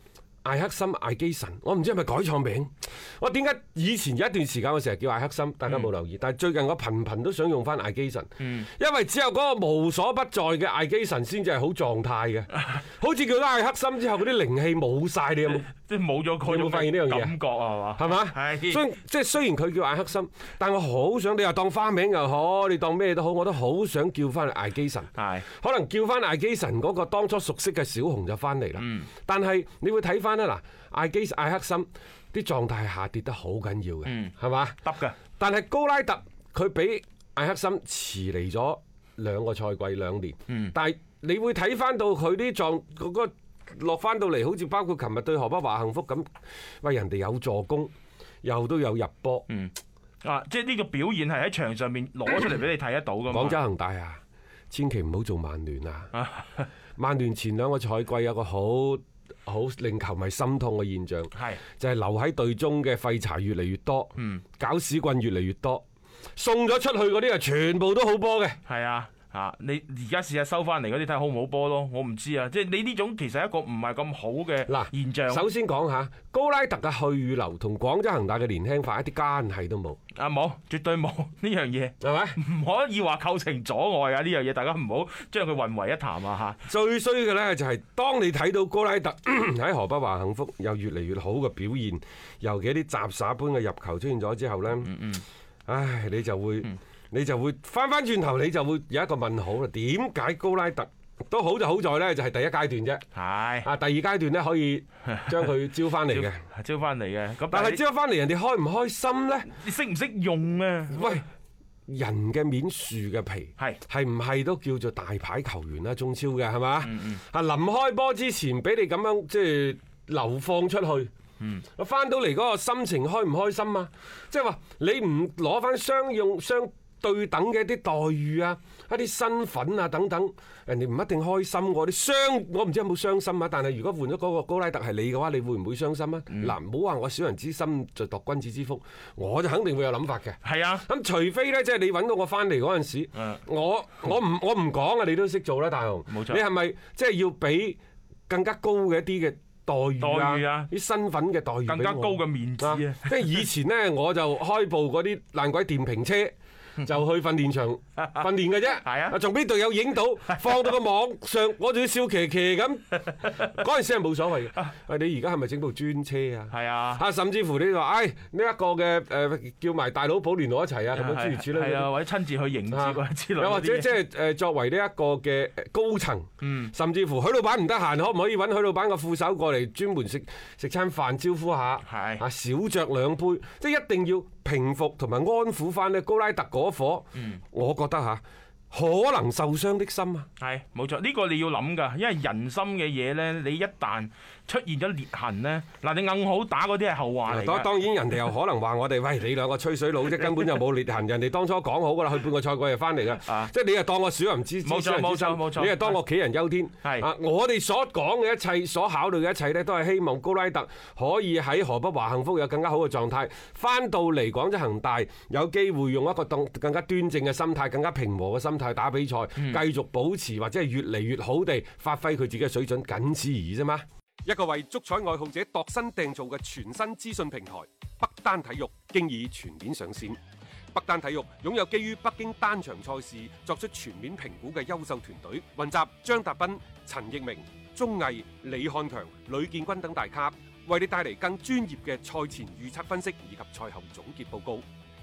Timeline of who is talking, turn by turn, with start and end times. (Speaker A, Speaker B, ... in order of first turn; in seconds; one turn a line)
Speaker A: 0.4-15.7
Speaker B: 8.4-8.7
Speaker B: 15.5-18.8
Speaker A: 16.4-17.4
Speaker A: 17.9-34.8
Speaker B: 25.2-25.5
Speaker B: 28.8-29.1
Speaker B: 34.1-35.2
Speaker A: 35.4-46.3
Speaker B: 40.5-40.8
Speaker A: 46.8-47.9
Speaker A: 48.4-49.5
Speaker B: 49.5-53.6
Speaker A: 53.3-56.1
Speaker B: 56.1-56.7
Speaker A: 57.0-65.8
Speaker B: 61.3-61.6
Speaker B: 64.2-64.4
Speaker A: 66.4-68.6
Speaker B: 68.7-75.5
Speaker A: 74.7-80.0
Speaker B: 80.2-86.6
Speaker A: 82.0-82.4
Speaker A: 86.7-95.1
Speaker B: 94.9-95.2
Speaker A: 95.7-103.0
Speaker B: 103.2-103.7
Speaker A: 103.6-106.4
Speaker B: 106.1-107.8
Speaker A: 107.5-109.5
Speaker B: 109.5-111.2
Speaker A: 110.9-111.2
Speaker A: 111.9-121.1
Speaker B: 116.8-117.2
Speaker B: 121.4-121.7
Speaker A: 121.8-171.9
Speaker B: 140.4-140.9
Speaker B: 146.1-146.4
Speaker B: 150.0-150.7
Speaker B: 151.7-153.5
Speaker B: 158.8-159.2
Speaker B: 166.5-167.0
Speaker B: 170.9-173.9
Speaker A: 172.7-190.3
Speaker B: 176.4-176.7
Speaker B: 181.8-182.2
Speaker B: 190.4-197.8
Speaker A: 197.3-230.2
Speaker B: 203.2-203.5
Speaker B: 204.6-206.0
Speaker B: 206.8-207.1
Speaker B: 219.4-219.6
Speaker A: 230.7-244.7